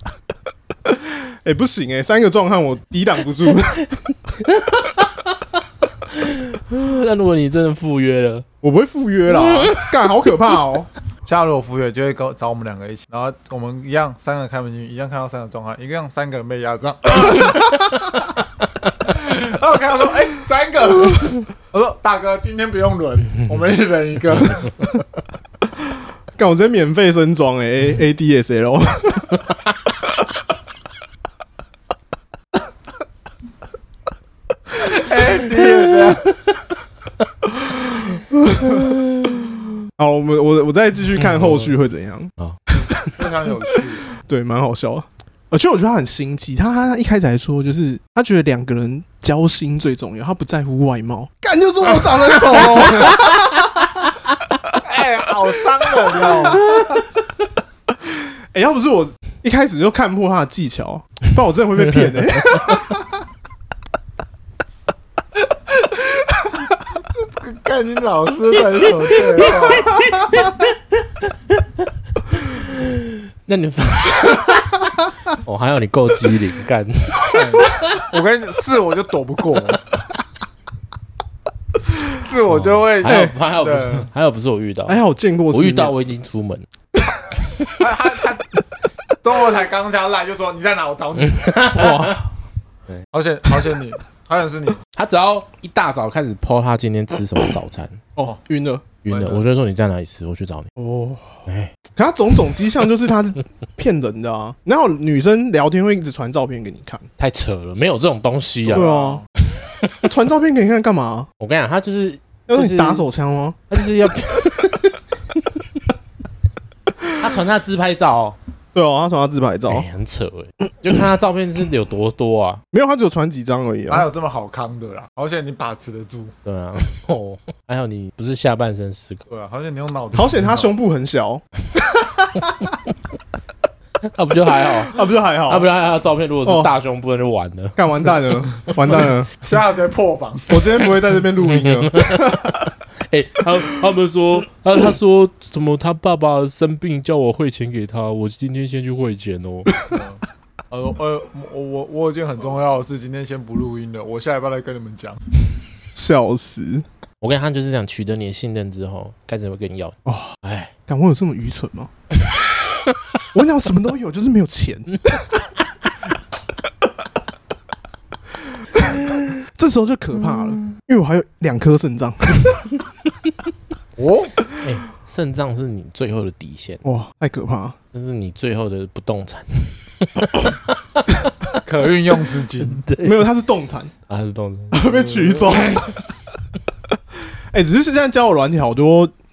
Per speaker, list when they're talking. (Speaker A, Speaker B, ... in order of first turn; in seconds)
Speaker A: 0.8-3.8, 8.6-10.9, 26.4-29.4, 37.6-54.1, 55.9-56.8, 58.0-63.0, 83.0-83.4, 84.9-85.9, 91.7-92.2, 98.2-98.8, 100.8-107.1, 108.7-109.2, 110.0-111.3, 112.5-113.6, 118.7-119.9, 122.7-124.1, 130.1-131.4, 134.9-135.7, 136.4-136.7, 137.8-139.3, 140.5-142.7, 155.9-156.8, 160.0-161.9, 163.3-165.0, 168.7-172.7, 176.8-177.8, 183.0-183.9, 184.7-185.8, 187.1-189.1
Speaker B: 3.8-8.4, 9.3-10.1, 38.6-39.4, 41.1-41.7, 56.7-57.0, 62.5-62.8, 69.1-78.0, 82.5-85.0, 85.5-86.7, 87.5-87.8, 91.2-92.2, 94.9-98.0, 99.0-100.7, 101.5-101.7, 107.2-108.9, 109.6-110.1, 111.4-113.0, 113.7-115.6, 117.2-118.4, 119.7-122.6, 126.4-129.2, 134.0-137.8, 141.4-149.7, 157.2-160.7, 165.0-165.2, 174.6-176.8, 177.9-181.6, 182.6-183.2, 184.1-186.0
Speaker C: 11.2-17.9, 19.1-25.0, 34.8-36.4, 42.9-44.1, 52.4-53.2, 54.8-56.8, 65.8-66.3, 67.0-70.1, 77.3-79.9, 82.1-84.1, 87.8-88.5, 89.2-91.5, 93.1-94.8, 99.1-99.4, 108.6-109.2, 123.9-126.3, 129.3-130.7, 138.8-140.9, 149.8-155.2, 174.0-174.4, 181.6-182.9